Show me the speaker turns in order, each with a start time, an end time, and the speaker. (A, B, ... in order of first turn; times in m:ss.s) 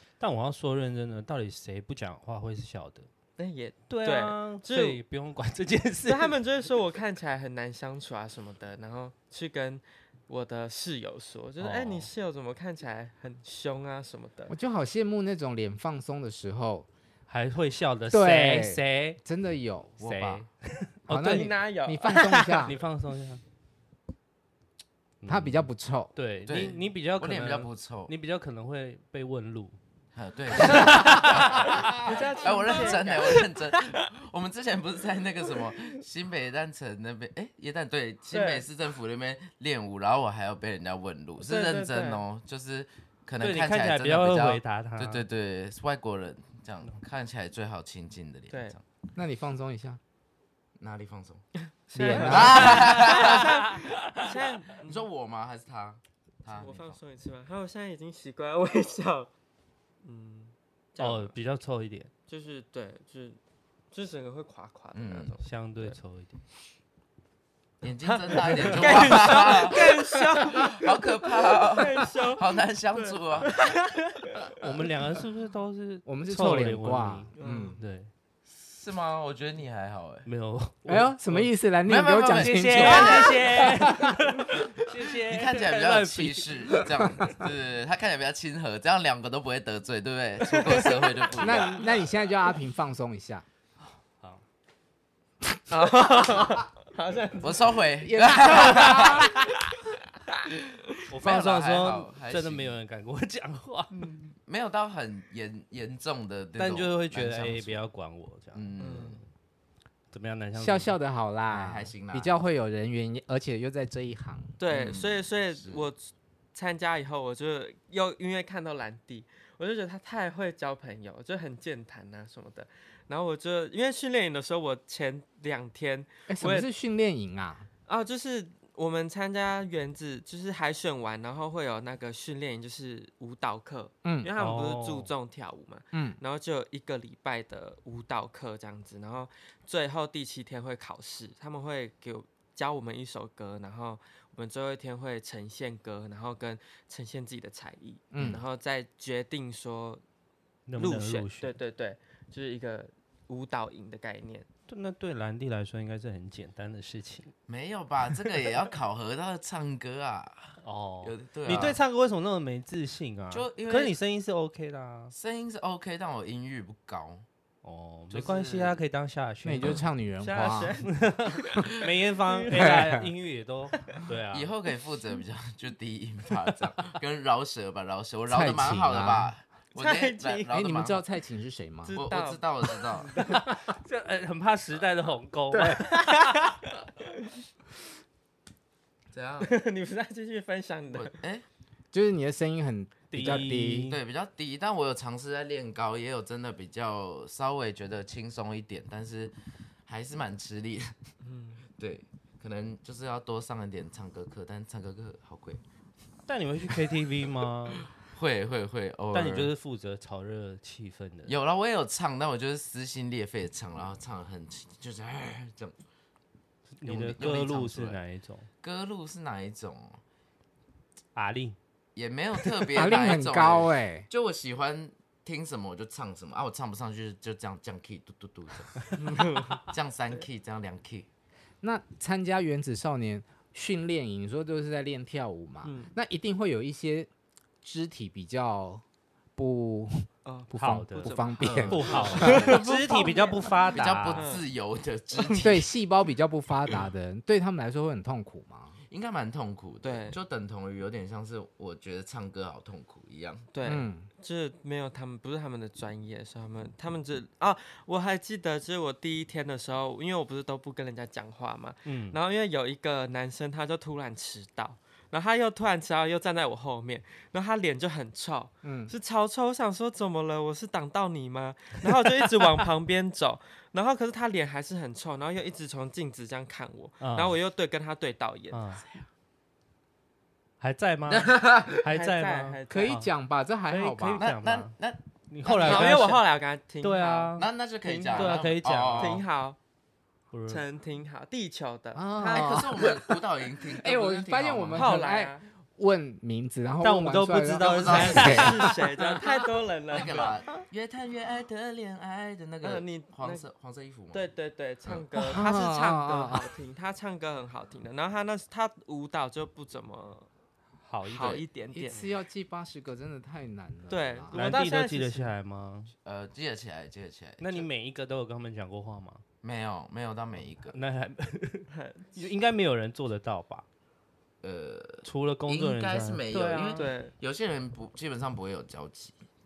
0:00.2-0:03.1 A
0:03.4-0:05.0 B
0:03.9-0:06.3 A
0:06.0-0:14.5 B
0:11.6-0:12.1 A
0:14.5-0:16.9 C
0:17.3-0:19.2 A
0:18.1-0:19.9 C
0:20.0-0:20.5 D
0:20.0-0:21.6 A
0:21.1-0:22.8 C
0:21.2-0:22.7 B
0:22.6-0:23.4 A
0:25.2-0:29.8 A
0:25.2-0:26.1 C
0:26.4-0:28.1 D
0:30.1-0:48.8 D
0:30.6-0:31.9 A
0:32.0-0:34.0 B
0:38.3-0:38.6 B
0:41.4-0:42.2 B
0:43.4-0:45.2 A
0:49.1-0:50.0 C
0:50.8-0:51.4 D
0:51.9-0:55.0 B
0:51.9-0:53.0 C
0:52.1-0:54.3 D
0:52.4-0:53.4 A
0:54.9-0:57.0 D
0:56.5-0:59.3 B
1:00.0-1:01.4 B
1:01.0-1:02.1 A
1:02.3-1:03.4 B
1:03.9-1:06.0 B
1:04.9-1:05.4 D
1:05.4-1:06.4 A
1:07.8-1:13.6 D
1:08.0-1:14.5 B
1:08.5-1:09.4 A
1:14.6-1:18.1 A
1:16.0-1:17.8 C
1:17.4-1:17.8 B
1:18.4-1:20.3 D
1:20.2-1:21.5 A
1:20.9-1:24.2 C
1:21.8-1:23.7 D
1:22.3-1:26.8 A
1:25.1-1:31.8 D
1:30.5-1:31.3 B
1:31.3-1:33.4 C
1:35.7-1:37.7 B
1:37.4-1:39.3 D
1:38.0-1:39.3 C
1:38.4-1:39.7 B
1:41.1-1:43.9 A
1:41.2-1:42.8 D
1:43.9-1:44.3 B
1:44.4-1:47.8 D
1:46.6-1:48.7 A
1:48.5-1:49.2 D
1:48.8-1:49.2 B
1:50.1-1:50.9 A
1:50.5-1:54.5 C
1:51.5-1:52.3 D
1:54.6-2:06.7 B
1:54.7-1:55.9 D
2:06.3-2:07.7 C
2:07.9-2:30.0 B
2:14.0-2:14.3 C
2:14.4-2:15.1 A
2:15.9-2:16.2 C
2:28.1-2:28.4 C
2:30.7-2:31.5 A
2:30.8-2:34.5 B
2:34.7-2:37.3 A
2:37.5-2:41.8 D
2:40.6-2:45.1 A
2:43.3-2:43.9 D
2:45.1-2:47.2 D
2:47.6-2:49.8 A
2:48.1-2:48.8 D
2:49.4-2:50.8 C
2:50.2-2:50.9 B
2:50.5-2:54.5 A
2:52.2-2:52.8 B
2:52.5-2:53.1 C
2:54.3-3:01.0 D
2:58.3-2:59.3 C
2:59.7-3:00.5 B
3:00.5-3:02.0 C
3:01.8-3:03.5 B
3:01.9-3:03.2 D
3:03.3-3:06.2 A
3:05.5-3:07.3 B
3:09.1-3:09.5 D
3:09.4-3:11.1 B
3:10.9-3:11.4 D
3:11.9-3:13.9 C
3:13.1-3:14.0 A
3:13.2-3:19.3 D
3:19.8-3:20.9 D
3:21.2-3:21.6 B
3:21.8-3:25.6 D
3:26.3-3:27.9 A
3:28.0-3:29.5 D
3:29.1-3:31.3 A
3:31.2-3:35.8 D
3:36.8-3:38.5 A
3:36.8-3:38.0 D
3:38.6-3:40.0 D
3:41.1-3:41.6 A
3:41.9-3:51.1 D
3:42.4-3:42.9 A
3:42.7-3:44.1 C
3:49.0-3:49.6 B
3:51.6-3:57.1 C
3:55.6-3:55.9 B
3:57.6-3:58.8 C
3:59.4-4:02.5 C
4:00.2-4:04.4 B
4:00.6-4:01.1 A
4:01.4-4:02.7 D
4:01.7-4:04.3 A
4:03.7-4:05.6 D
4:05.1-4:05.6 B
4:05.4-4:08.8 C
4:08.9-4:13.5 D
4:09.8-4:10.2 B
4:13.5-4:38.6 B
4:13.6-4:14.1 C
4:21.8-4:22.2 A
4:28.6-4:28.9 C
4:37.0-4:37.4 A
4:38.5-4:38.8 A
4:40.6-4:43.1 A
4:41.1-4:41.9 D
4:41.9-4:43.0 B
4:42.7-4:44.2 C
4:43.7-4:44.7 A
4:44.2-4:46.1 D
4:45.3-4:46.2 A
4:45.6-4:48.3 B
4:46.8-4:47.5 A
4:47.4-4:49.2 D
4:48.0-4:49.2 A
4:49.0-4:49.6 B
4:50.3-4:50.6 A
4:50.5-4:52.7 B
4:51.9-4:53.1 C
4:52.3-4:55.0 D
4:53.8-4:58.7 C
4:54.7-4:55.4 B
4:56.8-4:59.0 A
4:57.6-4:58.5 D
4:58.1-5:00.3 B
4:59.9-5:04.3 D
5:02.6-5:03.4 B
5:04.1-5:10.3 B
5:05.2-5:06.5 C
5:10.8-5:11.4 A
5:11.0-5:12.1 B
5:11.1-5:11.4 D
5:11.7-5:14.3 C
5:13.9-5:15.3 B
5:14.3-5:15.9 A
5:16.0-5:17.7 D
5:17.4-5:19.2 A
5:19.4-5:20.8 D
5:20.7-5:23.6 A
5:21.7-5:22.2 B
5:24.4-5:29.2 D
5:25.0-5:26.9 A
5:26.7-5:27.1 B